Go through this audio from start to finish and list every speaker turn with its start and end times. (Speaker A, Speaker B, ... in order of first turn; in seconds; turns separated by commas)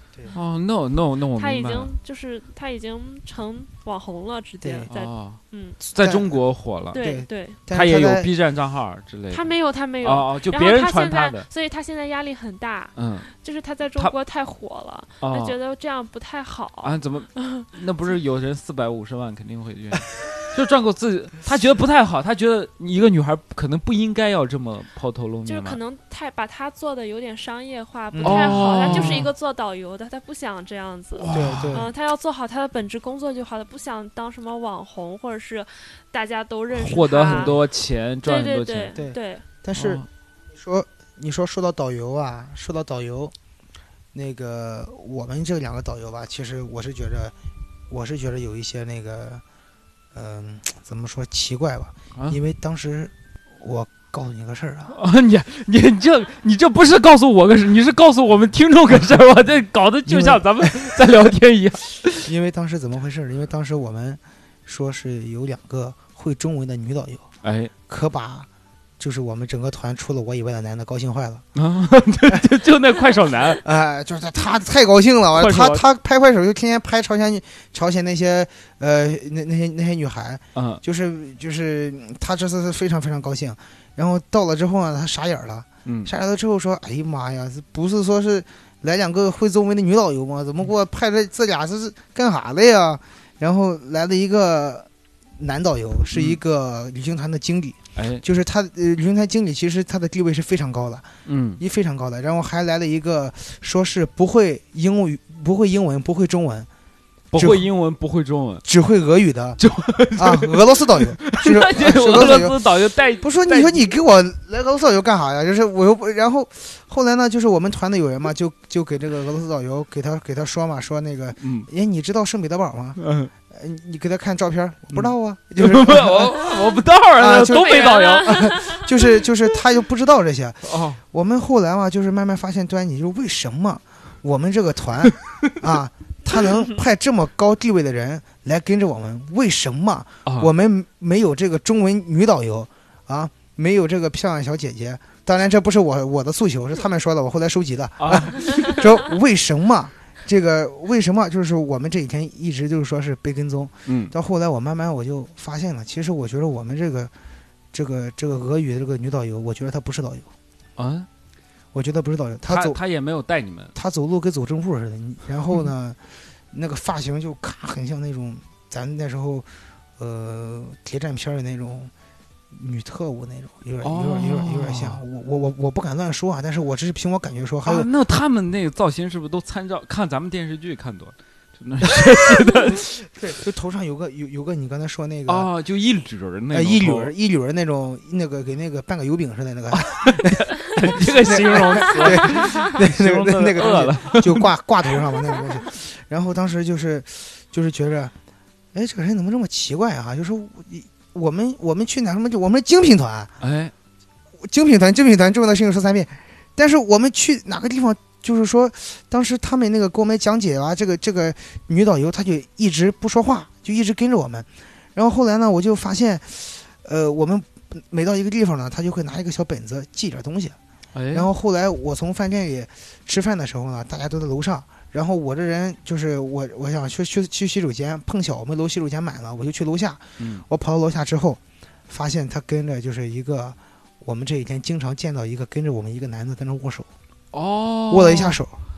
Speaker A: 0.3-1.9, Speaker B: 1.3-5.8, Speaker C: 4.6-4.9, Speaker A: 4.9-5.4, Speaker A: 5.9-7.0, Speaker C: 6.0-8.3, Speaker B: 6.9-7.6, Speaker A: 7.7-11.4, Speaker B: 9.3-17.7, Speaker A: 12.9-13.3, Speaker A: 15.2-15.6, Speaker A: 16.8-25.8, Speaker B: 25.4-37.5, Speaker C: 28.1-29.2, Speaker A: 28.2-29.3, Speaker A: 31.1-31.9, Speaker C: 31.3-31.9, Speaker A: 36.7-39.0, Speaker C: 37.3-37.6, Speaker B: 38.2-39.4, Speaker C: 38.9-43.3, Speaker A: 39.7-40.0, Speaker C: 44.1-47.3, Speaker C: 47.9-49.4, Speaker C: 50.1-55.0, Speaker A: 54.9-62.3, Speaker C: 60.0-60.9, Speaker C: 62.2-67.3, Speaker A: 67.4-67.7, Speaker C: 67.9-68.5, Speaker C: 69.0-71.5, Speaker A: 71.5-73.6, Speaker C: 73.6-106.7, Speaker A: 75.3-75.8, Speaker A: 80.5-80.8, Speaker A: 85.8-86.1, Speaker A: 96.1-96.4, Speaker A: 98.0-98.2, Speaker A: 101.2-101.6, Speaker A: 107.3-108.6, Speaker C: 107.3-107.7, Speaker C: 108.6-109.6, Speaker A: 109.6-113.9, Speaker C: 110.1-157.1, Speaker A: 121.4-121.7, Speaker A: 123.0-123.3, Speaker A: 124.9-128.6, Speaker B: 127.5-128.9, Speaker A: 130.6-131.0, Speaker A: 135.0-135.5, Speaker A: 148.0-148.8, Speaker A: 153.8-154.1, Speaker C: 157.7-160.3, Speaker A: 160.8-161.1, Speaker C: 161.7-162.8, Speaker A: 162.5-163.7, Speaker C: 163.7-171.9, Speaker C: 172.5-177.9, Speaker A: 173.8-175.0, Speaker A: 177.6-183.0, Speaker C: 182.2-185.5, Speaker A: 185.3-187.1, Speaker C: 186.5-198.1, Speaker A: 189.7-194.5, Speaker B: 191.9-192.4, Speaker C: 198.7-203.3, Speaker A: 203.4-203.7, Speaker C: 204.4-220.6, Speaker A: 220.9-221.3, Speaker C: 221.1-236.9, Speaker A: 230.2-230.4, Speaker A: 237.3-238.4, Speaker C: 237.9-238.6